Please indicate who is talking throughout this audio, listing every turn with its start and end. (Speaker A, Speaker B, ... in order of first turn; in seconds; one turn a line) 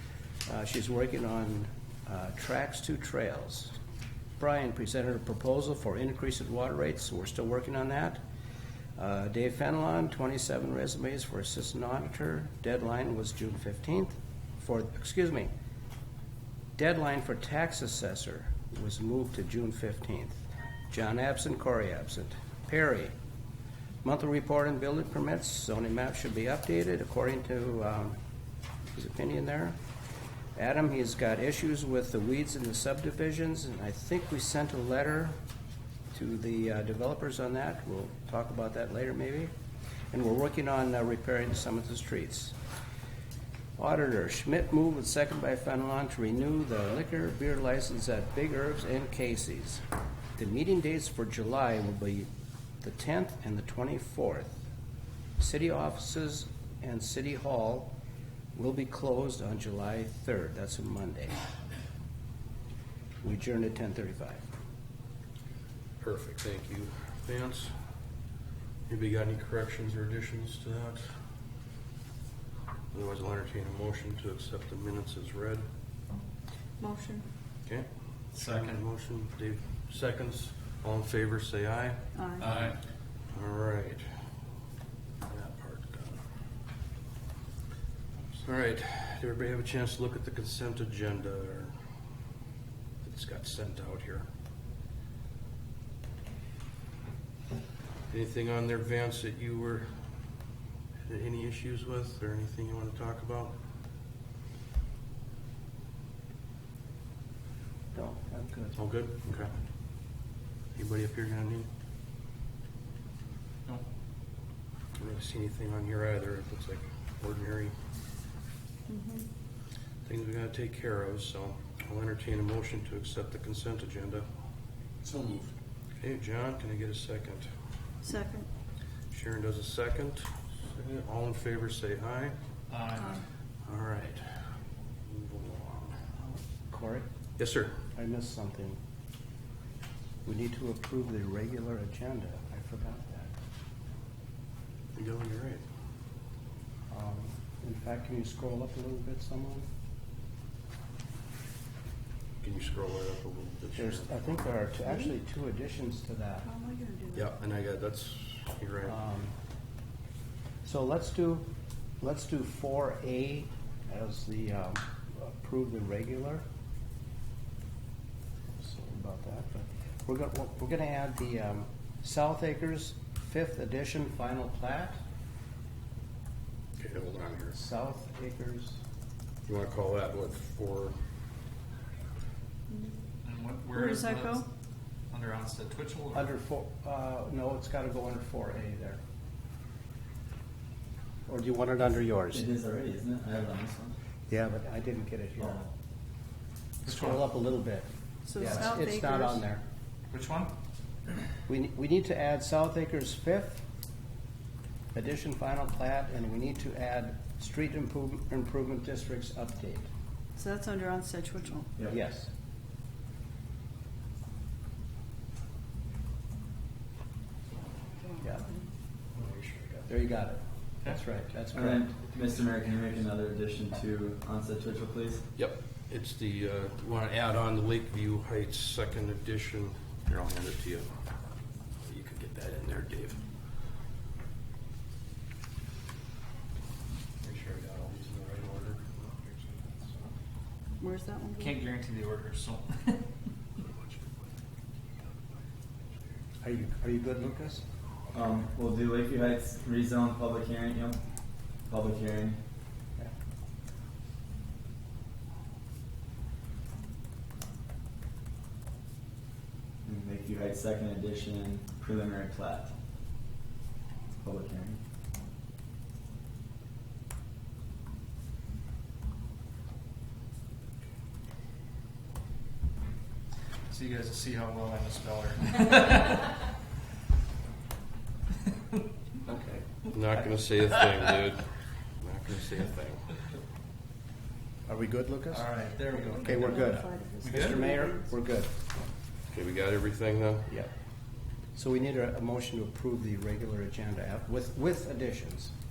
Speaker A: 0.5-3.7
Speaker A: 4.4-8.2
Speaker A: 9.0-15.5
Speaker A: 16.8-23.1
Speaker A: 24.0-28.2
Speaker A: 28.9-29.8
Speaker A: 30.6-35.4
Speaker A: 36.1-39.5
Speaker A: 40.1-42.5
Speaker A: 43.8-49.8
Speaker A: 50.4-52.3
Speaker A: 52.8-54.6
Speaker A: 55.4-57.9
Speaker A: 58.5-61.4
Speaker A: 63.2-64.5
Speaker B: 66.0-67.7
Speaker B: 68.9-71.2
Speaker B: 72.9-75.6
Speaker C: 76.8-77.3
Speaker B: 77.7-82.8
Speaker D: 78.3-78.8
Speaker C: 82.1-82.5
Speaker D: 82.4-82.8
Speaker B: 83.3-84.1
Speaker B: 85.3-86.2
Speaker B: 88.4-91.8
Speaker B: 93.0-94.3
Speaker B: 98.1-99.9
Speaker B: 101.0-103.5
Speaker A: 107.9-108.8
Speaker B: 108.8-109.5
Speaker B: 110.8-111.7
Speaker B: 115.0-117.7
Speaker C: 118.9-119.3
Speaker B: 120.0-124.2
Speaker D: 125.0-125.5
Speaker B: 126.0-127.5
Speaker C: 128.0-128.5
Speaker B: 129.1-132.4
Speaker D: 132.7-133.2
Speaker B: 133.7-134.3
Speaker B: 135.1-136.0
Speaker A: 136.2-137.1
Speaker B: 137.4-137.8
Speaker A: 137.9-138.8
Speaker A: 140.2-143.3
Speaker B: 144.9-145.6
Speaker A: 146.9-149.7
Speaker B: 152.4-154.1
Speaker A: 153.8-156.5
Speaker C: 156.4-157.3
Speaker B: 157.1-159.0
Speaker A: 158.8-159.3
Speaker A: 160.7-161.5
Speaker A: 162.0-166.4
Speaker A: 168.6-175.0
Speaker B: 176.8-177.6
Speaker A: 177.5-178.8
Speaker B: 179.5-180.9
Speaker C: 182.7-183.0
Speaker D: 183.2-184.4
Speaker C: 183.7-184.5
Speaker D: 185.1-186.3
Speaker A: 186.1-189.0
Speaker A: 191.3-192.5
Speaker E: 192.3-193.9
Speaker A: 194.3-195.7
Speaker A: 196.8-199.6
Speaker D: 196.8-197.2
Speaker C: 198.3-199.4
Speaker D: 200.1-200.5
Speaker A: 201.5-203.6
Speaker A: 204.9-209.9
Speaker C: 210.4-211.7
Speaker A: 211.9-212.3
Speaker C: 218.1-218.6
Speaker B: 219.2-219.6
Speaker A: 219.9-221.9
Speaker E: 221.5-225.3
Speaker B: 225.4-230.9
Speaker B: 231.8-233.2
Speaker B: 237.2-239.9
Speaker C: 240.8-241.6
Speaker D: 241.4-243.0
Speaker A: 246.4-247.6
Speaker E: 248.1-251.0
Speaker E: 251.7-252.4
Speaker E: 259.9-262.7
Speaker E: 264.2-264.8
Speaker D: 273.7-276.3
Speaker A: 279.3-279.6
Speaker B: 279.9-283.1
Speaker A: 284.7-285.7
Speaker D: 285.4-286.5
Speaker C: 285.9-288.1
Speaker A: 286.2-288.6
Speaker B: 287.3-287.6
Speaker B: 289.3-290.5
Speaker A: 291.6-295.5